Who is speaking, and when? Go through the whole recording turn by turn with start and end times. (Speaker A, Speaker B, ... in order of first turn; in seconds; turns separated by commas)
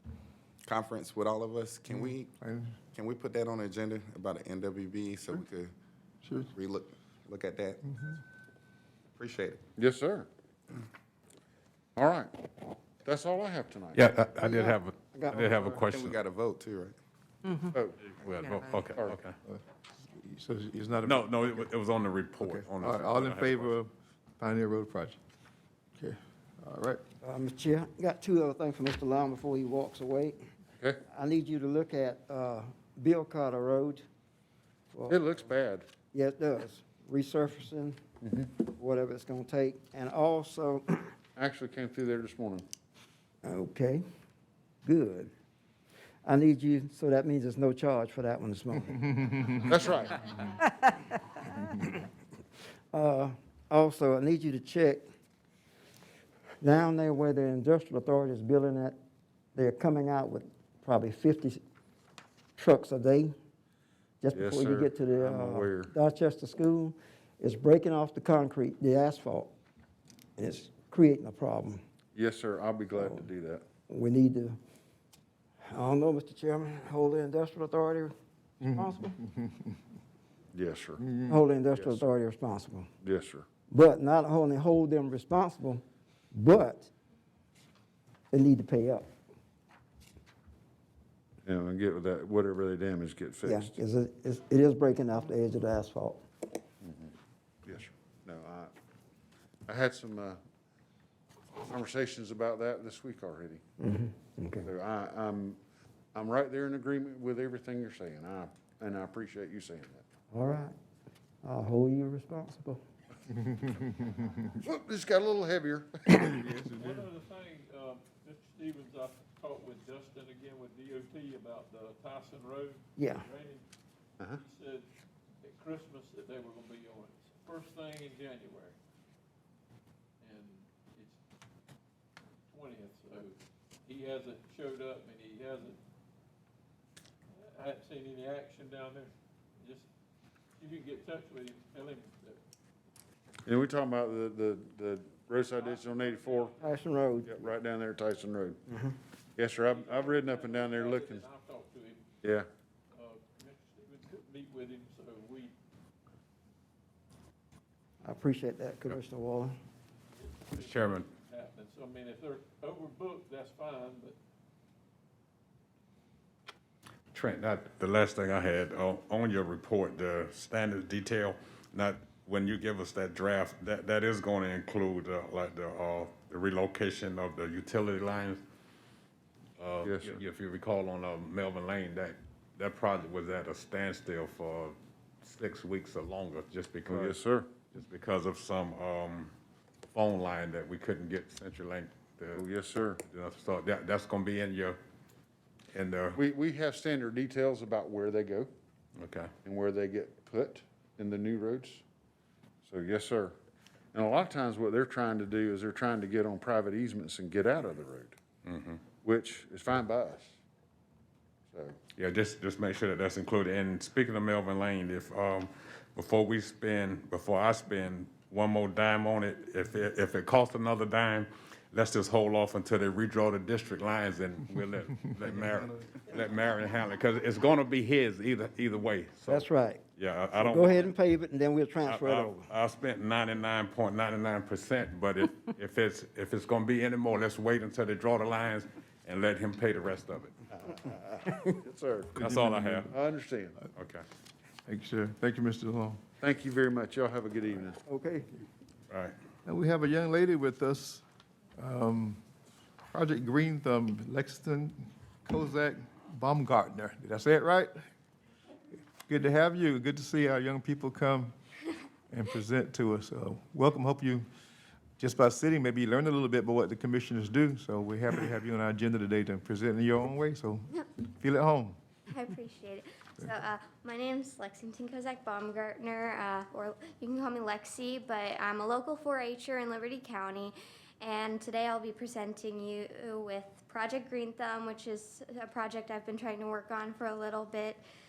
Speaker A: 0.6-2.3, Speaker B: 1.9-2.8, Speaker A: 2.9-5.7, Speaker B: 6.2-6.5, Speaker A: 6.5-8.1, Speaker B: 7.8-8.1, Speaker A: 9.2-9.6, Speaker C: 9.8-10.3, Speaker C: 11.9-14.1, Speaker D: 13.9-16.2, Speaker E: 14.4-15.8, Speaker A: 15.9-17.0, Speaker E: 17.4-17.7, Speaker C: 17.7-18.1, Speaker D: 18.1-19.4, Speaker C: 18.9-19.2, Speaker B: 20.1-21.7, Speaker D: 21.0-23.7, Speaker B: 22.4-25.2, Speaker B: 26.0-27.0, Speaker E: 27.2-30.4, Speaker E: 31.1-34.0, Speaker E: 34.9-35.2, Speaker C: 35.1-35.9, Speaker E: 36.1-38.0, Speaker C: 38.2-38.5, Speaker E: 38.6-41.1, Speaker C: 41.4-42.6, Speaker E: 43.4-44.0, Speaker E: 44.8-45.3, Speaker E: 46.2-49.2, Speaker B: 49.2-49.7, Speaker C: 49.6-50.3, Speaker E: 50.5-52.0, Speaker E: 52.9-55.0, Speaker E: 56.6-59.0, Speaker E: 59.5-61.6, Speaker E: 62.6-63.3, Speaker E: 64.2-69.5, Speaker C: 64.3-65.9, Speaker E: 70.4-71.8, Speaker C: 72.1-73.6, Speaker E: 73.9-74.6, Speaker E: 75.6-78.1, Speaker B: 78.6-79.8, Speaker E: 78.6-79.2, Speaker C: 80.5-81.0, Speaker B: 81.0-81.4, Speaker E: 81.3-82.9, Speaker C: 81.7-82.1, Speaker C: 83.0-83.5, Speaker E: 83.7-86.9, Speaker E: 88.3-89.1, Speaker C: 91.4-93.8, Speaker E: 93.5-96.2, Speaker C: 96.8-97.1, Speaker C: 97.7-98.7, Speaker C: 99.7-100.4, Speaker C: 101.6-103.6, Speaker E: 103.8-104.7, Speaker C: 104.6-105.6, Speaker C: 106.1-110.0, Speaker E: 110.3-110.7, Speaker E: 111.4-112.8, Speaker B: 113.3-114.1, Speaker C: 114.5-116.3, Speaker B: 116.3-117.0, Speaker F: 116.7-123.6, Speaker E: 123.0-123.3, Speaker F: 124.3-124.8, Speaker F: 125.4-128.7, Speaker F: 130.2-131.2, Speaker F: 132.5-133.3, Speaker F: 133.9-135.8, Speaker F: 137.5-139.9, Speaker F: 140.6-142.4, Speaker C: 143.4-146.5, Speaker F: 145.5-146.8, Speaker E: 146.6-147.4, Speaker C: 147.2-148.6, Speaker E: 148.7-148.9, Speaker C: 149.4-151.2, Speaker F: 149.6-152.1, Speaker F: 152.9-155.5, Speaker E: 158.0-159.5, Speaker F: 160.1-164.2, Speaker D: 160.6-161.1, Speaker D: 167.1-178.4, Speaker D: 179.6-187.2, Speaker C: 179.8-180.2, Speaker C: 186.8-187.5, Speaker D: 187.7-189.3, Speaker D: 189.9-192.4, Speaker C: 192.3-193.0, Speaker D: 193.1-194.8, Speaker D: 195.7-196.2, Speaker C: 196.2-198.5, Speaker D: 199.0-199.3, Speaker C: 199.4-201.8, Speaker C: 202.6-203.3, Speaker C: 203.9-208.2, Speaker D: 208.4-208.8, Speaker C: 209.0-210.4, Speaker C: 211.5-211.8, Speaker D: 211.9-230.9, Speaker E: 229.3-229.8, Speaker E: 230.3-232.5, Speaker D: 231.8-240.3, Speaker C: 240.5-242.2, Speaker D: 242.2-242.9, Speaker B: 242.2-242.9, Speaker C: 242.9-243.6, Speaker D: 243.7-244.0, Speaker B: 244.7-246.0, Speaker C: 246.2-247.8, Speaker E: 247.9-248.3, Speaker B: 249.4-251.0, Speaker B: 251.6-252.2, Speaker B: 252.9-257.7, Speaker B: 259.1-261.3, Speaker B: 262.1-264.3, Speaker B: 265.0-271.8, Speaker G: 272.1-287.8